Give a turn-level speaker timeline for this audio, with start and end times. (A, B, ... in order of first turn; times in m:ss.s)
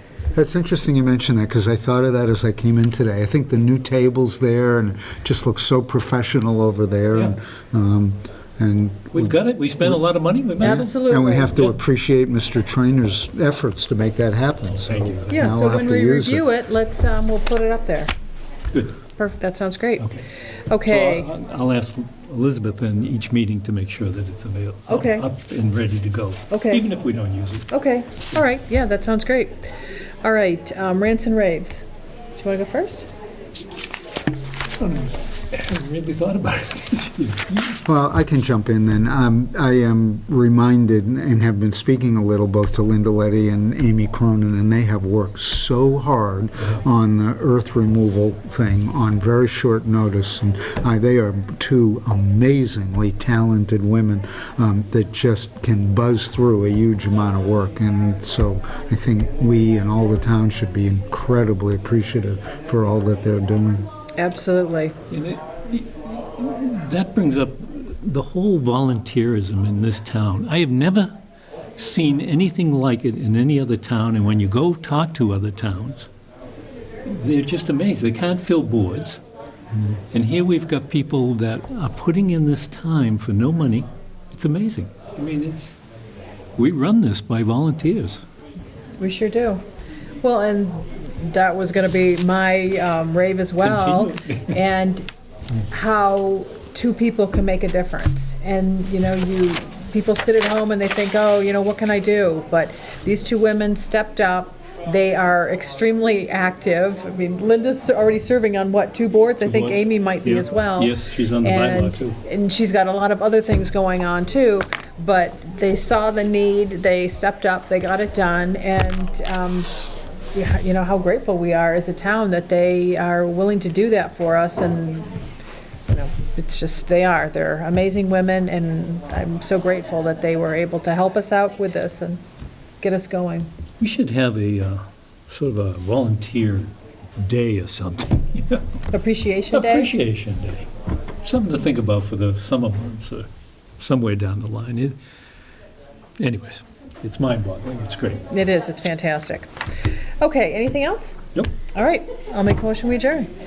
0:00.4-0:10.0 A
0:09.1-0:11.0 B
0:10.6-0:16.5 A
0:10.6-0:11.7 C
0:14.8-0:15.6 B
0:15.3-0:18.1 C
0:19.2-0:20.1 C
0:20.7-0:21.3 C
0:20.9-0:27.7 B
0:24.9-0:25.3 C
0:26.5-0:26.8 C
0:27.7-0:31.8 C
0:32.4-0:33.1 C
0:34.8-0:37.8 B
0:37.8-1:03.9 A
1:04.2-1:05.0 C
1:05.1-1:11.2 B
1:11.8-1:16.1 B
1:17.1-1:19.2 B
1:19.9-1:25.7 B
1:26.6-1:28.2 B
1:29.0-1:29.6 C
1:30.2-1:35.1 C
1:33.6-1:34.6 B
1:35.7-2:05.2 C
1:49.4-1:52.2 B
2:05.9-2:12.2 C
2:12.8-2:13.5 C
2:13.8-2:18.8 B
2:18.9-2:19.9 C
2:19.5-2:20.7 B
2:21.2-2:23.3 B
2:23.8-2:25.0 B
2:26.2-2:28.3 B
2:28.3-2:29.5 C
2:30.2-2:31.2 C
2:31.7-2:33.3 C